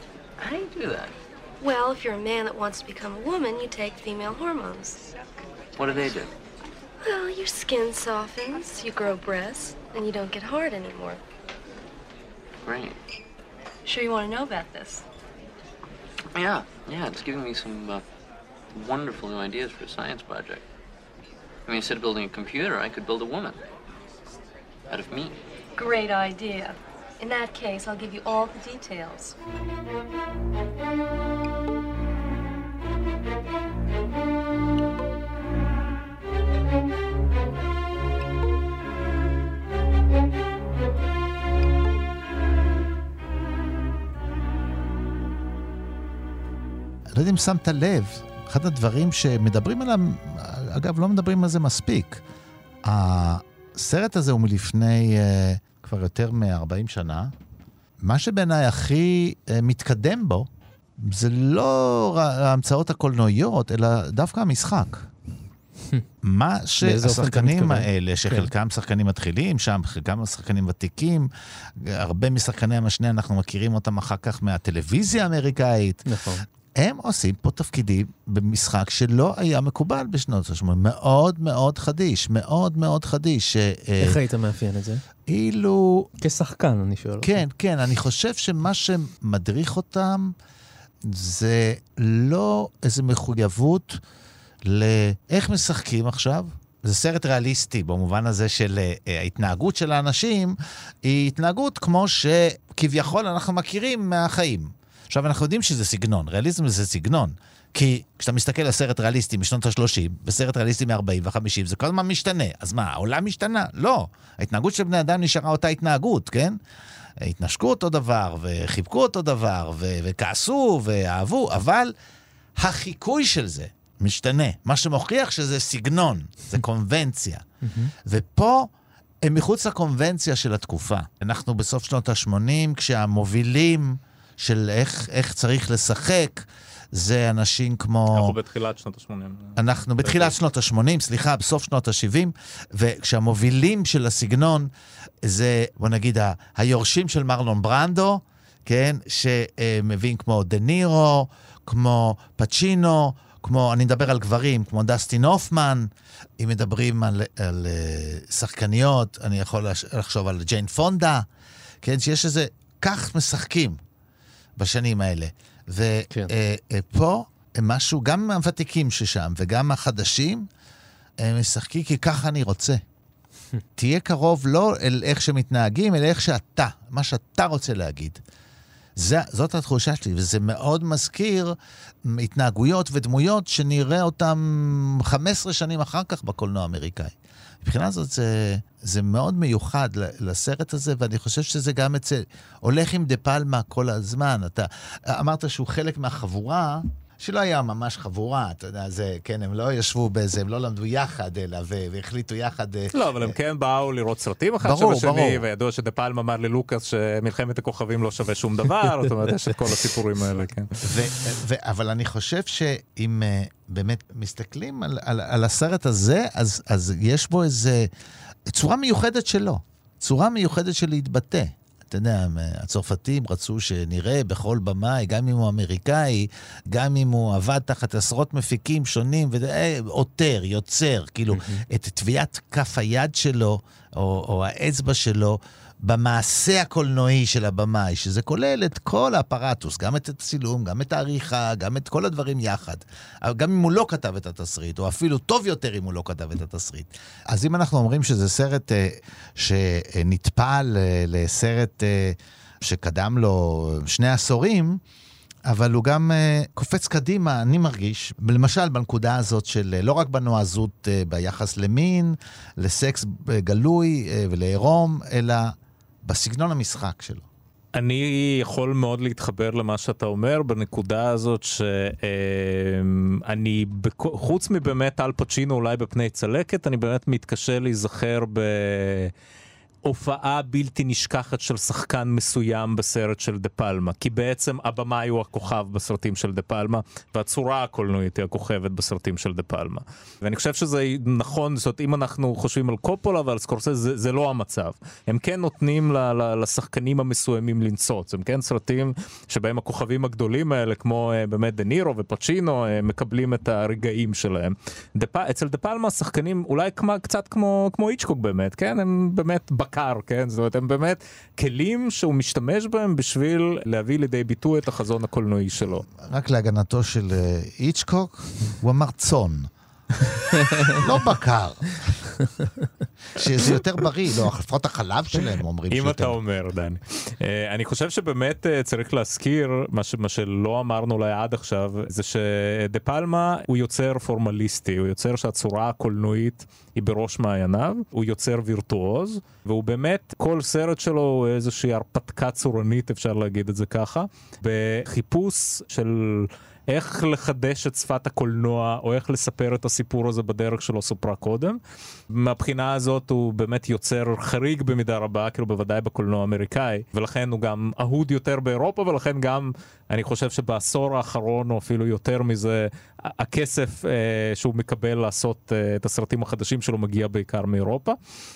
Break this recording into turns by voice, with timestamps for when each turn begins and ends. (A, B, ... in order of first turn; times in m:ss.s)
0:00.4-0:01.1 A
0:01.6-0:05.1 B
0:05.8-0:06.3 A
0:07.0-0:11.2 B
0:12.6-0:13.0 A
0:13.8-0:15.0 B
0:16.3-0:18.0 A
0:18.7-0:20.6 A
0:21.7-0:23.6 A
0:24.9-0:25.3 A
0:25.8-0:29.4 B
0:47.1-0:52.2 C
0:52.8-0:57.3 C
0:58.0-1:05.1 C
1:06.2-1:16.0 C
1:06.8-1:08.5 D
1:16.0-1:16.4 D
1:16.8-1:24.2 C
1:24.0-1:25.0 D
1:25.3-1:26.1 C
1:26.2-1:27.4 D
1:27.2-1:30.3 C
1:31.0-1:34.0 C
1:34.6-1:56.6 C
1:57.2-2:01.9 C
2:02.6-2:07.4 C
2:07.6-2:07.9 D
2:08.0-2:08.7 C
2:09.2-2:18.3 C
2:18.1-2:20.3 E
2:19.6-2:24.7 C
2:25.2-2:41.3 C
2:41.8-2:43.8 C
2:44.6-2:50.4 C
2:51.2-2:52.8 C
2:53.8-2:58.2 C
2:59.0-3:23.4 C
3:22.9-3:30.7 E
3:24.6-3:25.4 C
3:30.8-3:37.9 C
3:38.5-4:14.8 C
3:51.3-3:51.6 D
4:15.5-4:27.2 C
4:27.7-4:39.1 E
4:39.8-5:15.8 E
5:15.9-5:19.5 C
5:20.4-5:20.8 D
5:20.6-5:22.0 C
5:23.1-5:26.2 C
5:25.7-5:51.6 E
5:52.1-6:08.0 E